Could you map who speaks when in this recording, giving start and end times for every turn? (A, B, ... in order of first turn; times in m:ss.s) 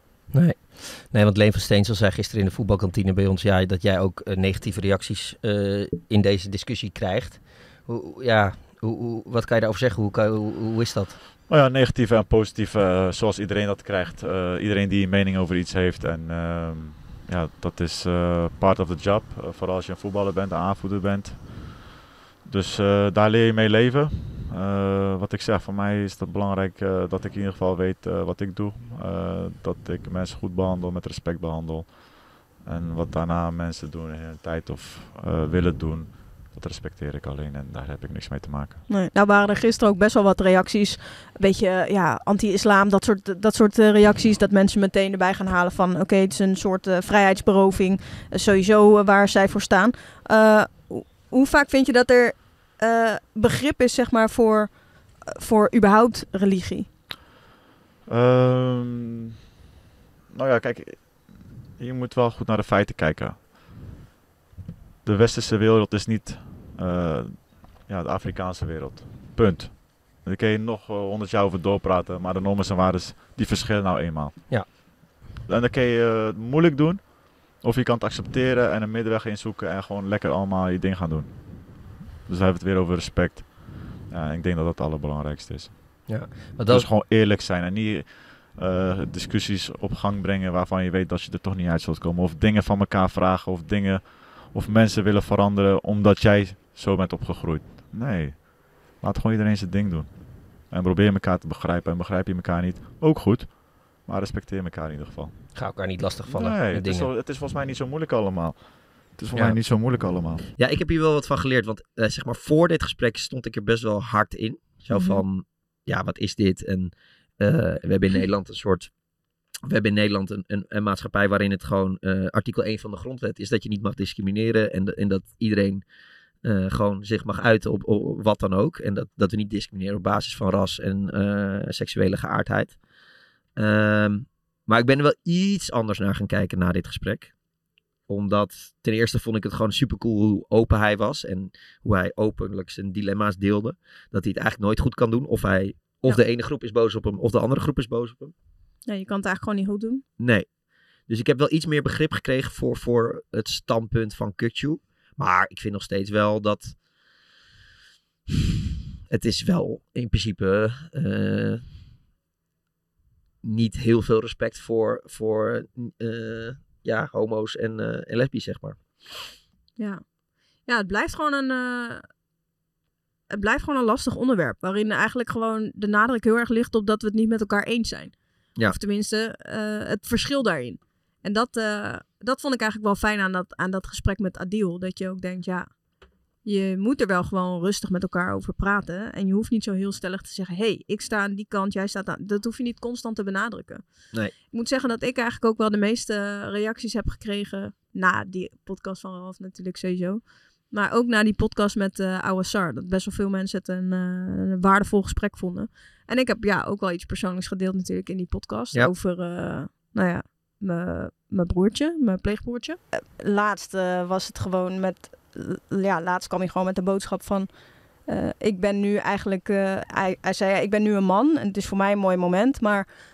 0:00.3-0:11.2 A
0:11.5-0:21.9 B
0:22.4-0:38.8 B
0:38.9-0:54.7 C
0:55.3-0:56.9 C
0:58.1-0:59.5 B
1:00.3-1:03.5 B
1:05.0-1:14.8 B
1:15.5-1:26.0 B
1:26.1-1:26.9 A
1:26.7-1:45.4 B
1:45.6-1:47.1 A
1:46.3-1:50.4 B
1:50.6-1:58.9 A
1:54.9-1:55.2 C
1:59.6-2:05.8 A
2:06.4-2:12.8 A
2:13.6-2:17.3 A
2:18.1-2:28.3 A
2:28.9-2:30.0 C
2:30.2-2:30.5 A
2:31.1-2:36.8 A
2:39.1-2:41.6 A
2:43.4-2:48.8 A
2:50.7-2:52.0 C
2:53.3-3:05.7 C
3:06.4-3:13.8 C
3:14.5-3:37.5 C
3:38.1-3:42.9 C